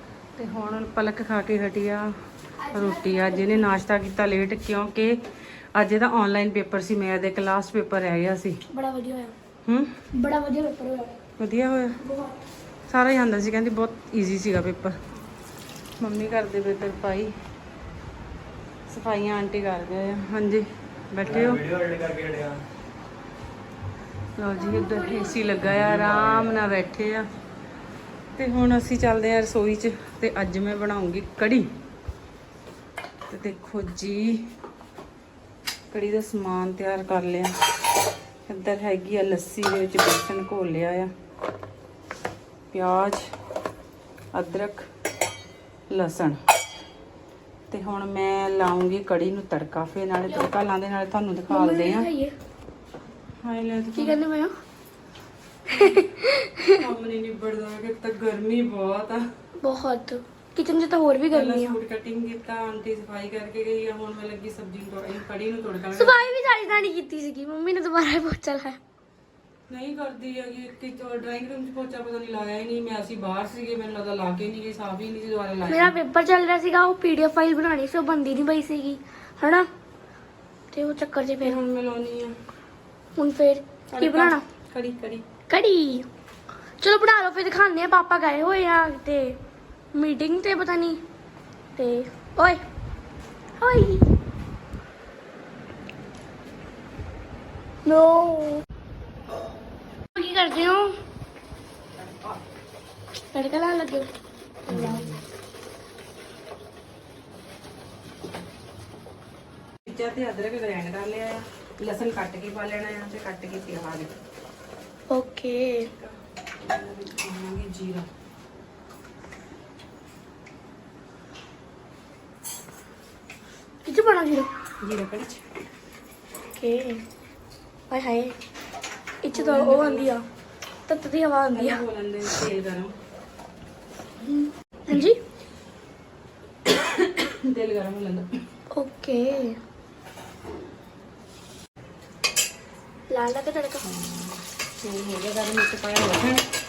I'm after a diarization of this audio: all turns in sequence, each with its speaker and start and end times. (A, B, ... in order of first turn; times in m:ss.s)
0:00.4-0:02.1 A
0:02.6-0:03.7 B
0:02.7-0:05.2 A
0:05.8-0:08.6 A
0:08.7-0:09.4 B
0:09.7-0:09.9 A
0:10.1-0:11.2 B
0:11.4-0:12.0 A
0:12.0-0:12.4 B
0:12.9-0:15.0 A
0:16.0-0:17.3 A
0:18.9-0:21.6 A
0:21.2-0:22.6 C
0:24.4-0:27.3 A
0:24.6-0:25.8 B
0:25.7-0:26.7 C
0:28.4-0:31.7 A
0:33.3-0:34.4 A
0:35.9-0:37.5 A
0:38.5-0:41.1 A
0:42.7-0:43.3 A
0:44.3-0:44.9 A
0:45.9-0:46.4 A
0:47.7-0:52.1 A
0:51.5-0:52.4 B
0:53.4-0:54.2 A
0:54.0-0:54.5 B
0:55.7-0:56.0 A
0:55.8-0:56.7 B
0:56.7-0:59.2 A
0:59.6-1:01.8 B
1:01.3-1:06.8 A
1:05.9-1:08.8 B
1:09.7-1:16.0 A
1:15.6-1:19.7 B
1:20.7-1:21.6 B
1:21.4-1:22.4 A
1:23.2-1:24.4 B
1:23.9-1:25.2 A
1:25.5-1:26.1 B
1:26.8-1:29.4 B
1:29.9-1:31.0 B
1:31.8-1:32.6 B
1:33.6-1:34.1 B
1:37.8-1:38.6 B
1:40.1-1:40.9 B
1:42.0-1:42.4 A
1:43.3-1:44.1 B
1:44.7-1:45.1 B
1:44.7-1:45.2 A
1:49.8-1:54.1 A
1:55.1-1:55.8 B
1:55.8-1:58.1 A
2:03.8-2:04.5 B
2:04.8-2:05.5 A
2:06.5-2:07.0 B
2:07.9-2:08.4 B
2:09.2-2:10.2 B
2:09.3-2:10.2 A
2:10.9-2:11.8 B
2:11.5-2:12.9 A
2:14.9-2:15.2 B
2:17.0-2:18.4 A
2:18.7-2:19.6 B
2:23.1-2:23.9 B
2:23.8-2:26.4 A